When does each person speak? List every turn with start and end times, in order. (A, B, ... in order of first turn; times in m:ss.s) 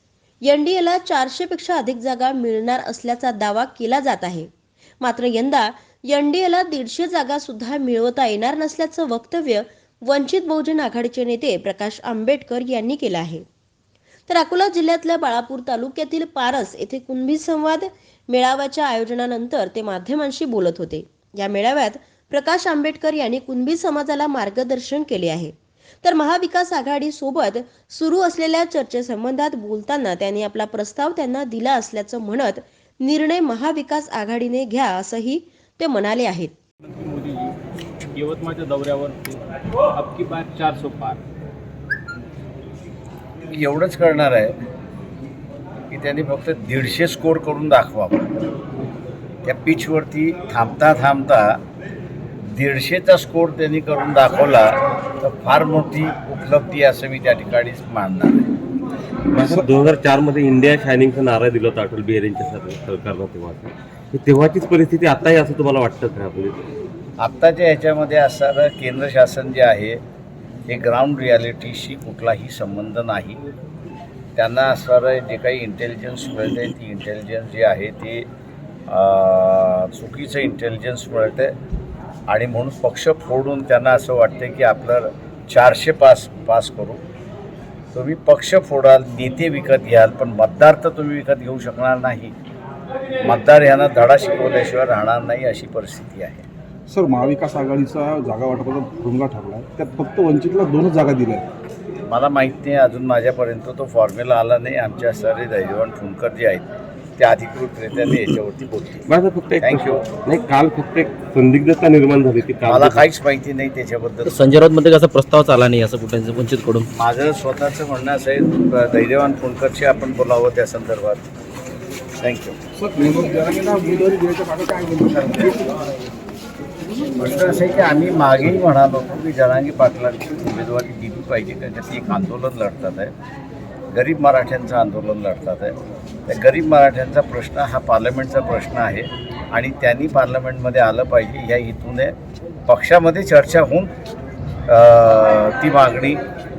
0:00.5-0:04.5 A
0:05.0-0:13.4 A
0:14.3-0:36.5 A
0:36.8-0:37.6 B
0:38.2-0:39.4 B
0:39.9-0:41.2 B
0:43.5-0:44.6 C
0:45.9-0:48.3 C
0:49.4-0:51.6 C
0:52.5-0:58.5 C
0:59.3-1:06.6 D
1:07.2-1:10.0 C
1:10.7-1:13.4 C
1:14.4-1:18.3 C
1:18.9-1:21.5 C
1:22.3-1:27.0 C
1:27.9-1:32.3 C
1:33.2-1:36.5 C
1:36.9-1:41.4 E
1:42.1-1:46.7 C
1:47.2-1:49.1 C
1:49.1-1:53.1 D
1:49.6-1:50.1 C
1:52.7-1:54.3 C
1:54.3-1:56.9 F
1:57.0-2:01.2 C
2:02.2-2:02.6 C
2:02.8-2:05.8 E
2:07.2-2:13.1 C
2:13.9-2:15.8 C
2:16.3-2:22.2 C
2:22.7-2:23.9 C
2:24.7-2:26.2 C